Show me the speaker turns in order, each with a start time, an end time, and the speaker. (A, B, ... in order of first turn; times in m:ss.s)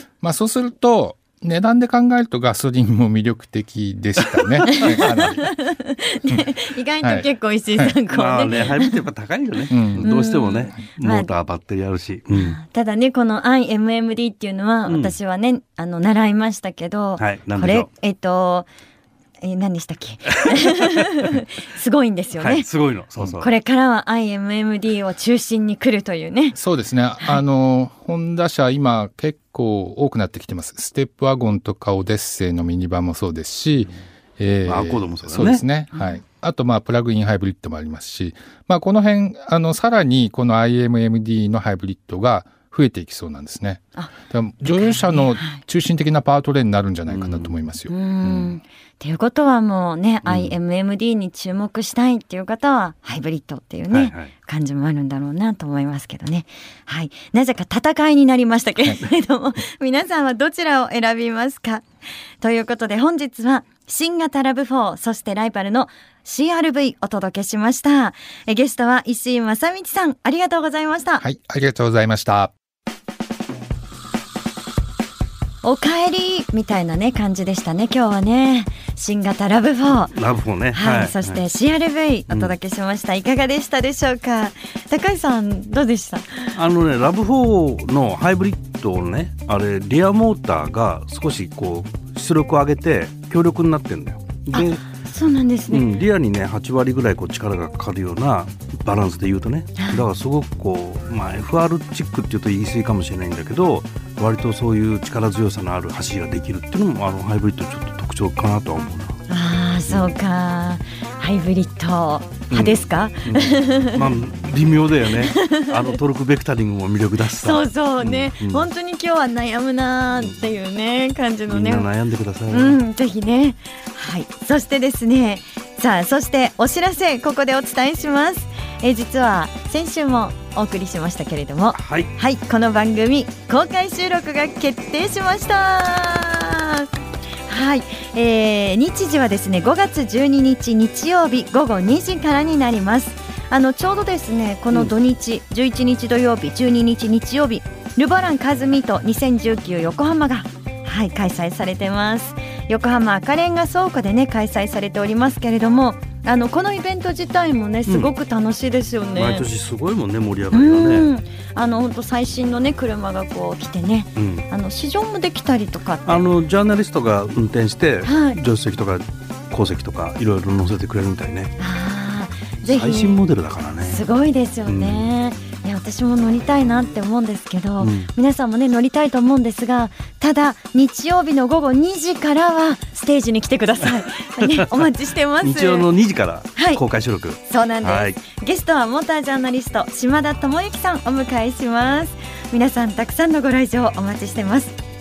0:00.2-0:05.5 A
0:04.7-0:09.0 B
0:07.0-0:07.9 A
0:08.1-0:12.6 C
0:09.7-0:10.1 A
0:10.0-0:11.3 B
0:12.3-0:18.7 B
0:14.9-0:15.2 C
0:17.2-0:17.9 C
0:19.4-0:22.7 B
0:22.4-0:23.5 C
0:23.4-0:26.6 B
0:26.5-0:48.6 A
0:34.6-0:35.6 C
0:35.9-0:36.2 B
0:44.6-0:45.6 B
0:47.1-0:47.6 C
0:47.9-1:01.8 B
0:50.2-0:50.5 C
0:53.9-0:54.3 C
1:02.4-1:11.2 B
1:11.2-1:12.5 A
1:15.6-1:20.1 B
1:20.1-1:21.4 C
1:20.7-1:26.6 B
1:22.3-1:22.5 C
1:26.5-1:34.8 C
1:34.5-1:35.9 B
1:35.7-1:49.2 C
1:39.8-1:40.0 B
1:49.3-1:54.1 B
1:52.5-1:58.7 C
1:55.1-1:56.0 B
1:57.3-2:01.9 B
2:01.5-2:02.8 C
2:02.5-2:16.9 B
2:11.8-2:12.1 C
2:17.5-2:39.4 B
2:37.9-2:38.1 C
2:39.2-2:41.1 C
2:40.5-2:46.3 B
2:44.2-2:44.5 C
2:46.0-2:51.5 C
2:48.0-2:48.4 B
2:51.6-2:53.2 B
2:52.6-2:54.0 C
2:53.8-3:05.9 B
2:54.7-2:55.1 C
2:57.8-2:58.1 C
3:04.5-3:04.8 C
3:05.4-3:08.2 C
3:06.6-3:06.8 B
3:07.4-3:14.8 B